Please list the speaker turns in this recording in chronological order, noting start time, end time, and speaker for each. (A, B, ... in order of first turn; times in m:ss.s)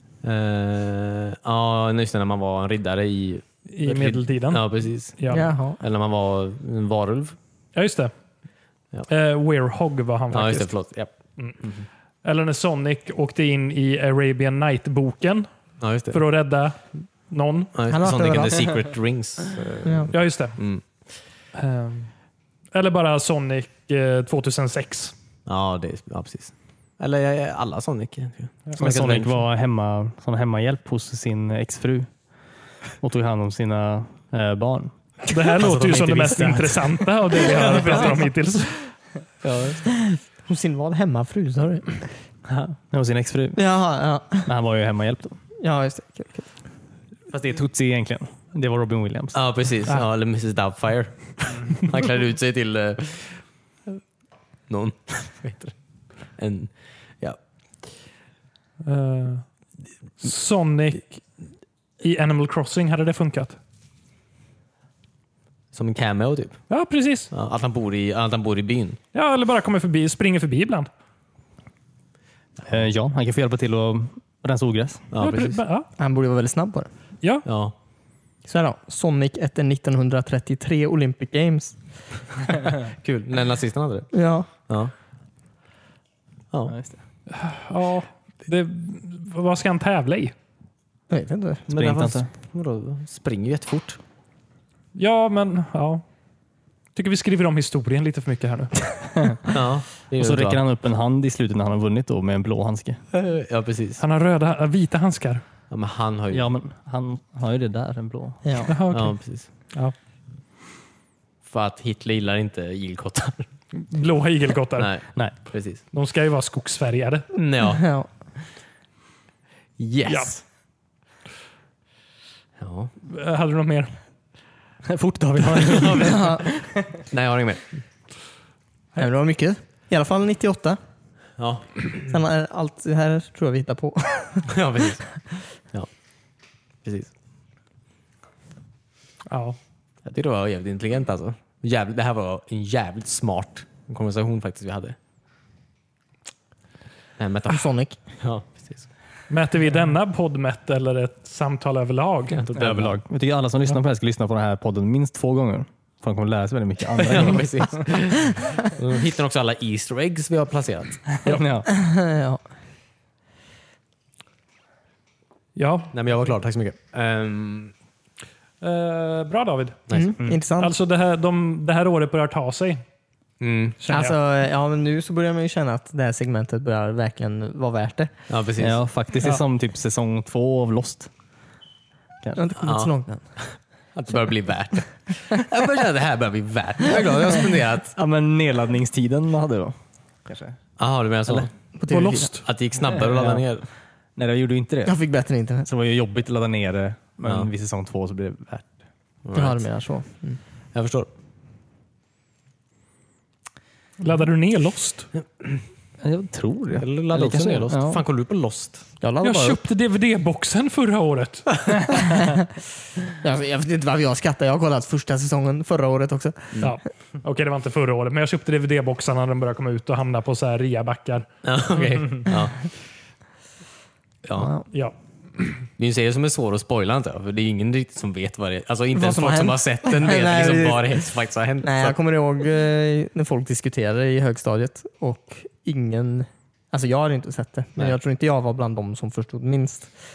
0:00.2-0:05.2 A
0:03.7-0:05.5 B
0:05.3-0:05.8 C
0:05.7-0:07.4 A
0:07.7-0:08.1 B
0:09.1-0:10.7 B
0:10.3-0:11.9 A
0:12.2-0:15.5 B
0:15.8-0:16.2 A
0:16.1-0:17.7 B
0:17.7-0:20.8 A
0:17.9-0:18.7 C
0:19.8-0:20.1 C
0:20.1-0:20.6 B
0:21.5-0:22.1 B
0:22.7-0:25.1 B
0:25.4-0:29.4 A
0:28.8-0:32.1 D
0:33.0-0:34.9 D
0:35.3-0:38.8 B
0:35.4-0:36.9 D
0:37.5-0:38.2 A
0:39.4-0:39.9 A
0:39.9-0:42.1 C
0:42.4-0:43.6 D
0:43.5-0:44.5 C
0:44.4-0:45.4 D
0:45.6-0:46.5 C
0:47.3-0:47.6 A
0:47.4-0:49.4 D
0:49.3-0:54.0 A
0:54.7-0:55.7 A
0:56.4-0:57.4 A
0:58.8-0:59.4 B
1:00.2-1:01.2 B
1:02.0-1:03.6 B
1:05.7-1:06.6 A
1:06.7-1:07.3 B
1:07.3-1:09.0 A
1:09.1-1:10.9 B
1:12.6-1:15.1 D
1:15.1-1:15.6 A
1:15.2-1:15.9 B
1:16.0-1:16.9 C
1:17.4-1:17.7 A
1:18.4-1:21.8 C
1:22.8-1:24.9 A
1:24.1-1:24.5 C
1:26.5-1:26.8 A
1:26.7-1:27.0 D
1:27.3-1:30.3 B
1:31.1-1:31.6 C
1:31.7-1:34.0 A
1:31.7-1:32.3 D
1:35.0-1:36.0 B
1:36.9-1:39.1 B
1:39.5-1:40.6 A
1:40.2-1:43.0 D
1:43.1-1:44.0 A
1:44.0-1:45.4 B
1:45.7-1:46.5 A
1:46.3-1:48.5 D
1:48.4-1:48.7 C
1:48.7-1:49.9 B
1:48.9-1:49.5 A
1:51.4-1:53.5 A
1:53.7-1:55.0 B
1:54.8-1:55.8 A
1:55.9-1:57.2 B
1:57.3-1:57.8 A
1:57.6-1:58.1 C
1:59.8-2:00.4 A
2:00.0-2:00.3 B
2:02.6-2:02.9 A
2:03.0-2:03.9 B
2:04.8-2:06.6 D
2:05.5-2:07.8 A
2:06.0-2:06.4 C
2:09.0-2:10.8 C
2:11.4-2:12.1 A
2:12.1-2:14.5 C
2:14.5-2:15.9 A
2:16.8-2:17.1 A
2:19.3-2:19.6 B
2:20.0-2:25.0 A
2:27.2-2:28.8 A
2:27.5-2:28.0 C
2:29.3-2:32.4 B
2:32.3-2:33.0 A
2:32.6-2:37.8 D
2:37.0-2:41.2 A
2:41.2-2:41.7 D
2:41.6-2:42.4 C
2:45.6-2:45.9 B
2:45.9-2:47.7 A
2:48.6-2:49.8 B
2:49.9-2:50.7 C
2:50.6-2:52.8 B
2:53.4-2:53.8 A
2:53.8-2:54.1 B
2:53.8-2:58.1 C
2:58.3-2:58.8 A
2:58.6-3:01.1 D
3:02.3-3:03.2 C
3:02.6-3:07.9 A
3:07.9-3:09.7 D
3:10.3-3:10.6 D
3:10.8-3:11.5 A
3:11.7-3:12.3 C
3:11.9-3:12.4 B
3:12.4-3:13.6 A
3:12.9-3:13.4 D
3:14.2-3:15.0 D
3:14.8-3:15.7 C
3:15.6-3:18.7 D
3:19.2-3:19.6 A
3:19.3-3:20.4 C
3:20.7-3:21.1 A
3:24.0-3:25.1 B
3:26.0-3:28.0 D
3:26.8-3:28.8 A
3:29.0-3:29.6 C
3:29.2-3:31.7 B
3:33.2-3:36.5 C
3:36.6-3:41.3 B
3:41.4-3:42.7 A
3:44.2-3:44.5 A
3:44.4-3:44.6 C
3:45.8-3:52.0 A
3:48.9-3:51.0 C
3:51.6-3:59.9 C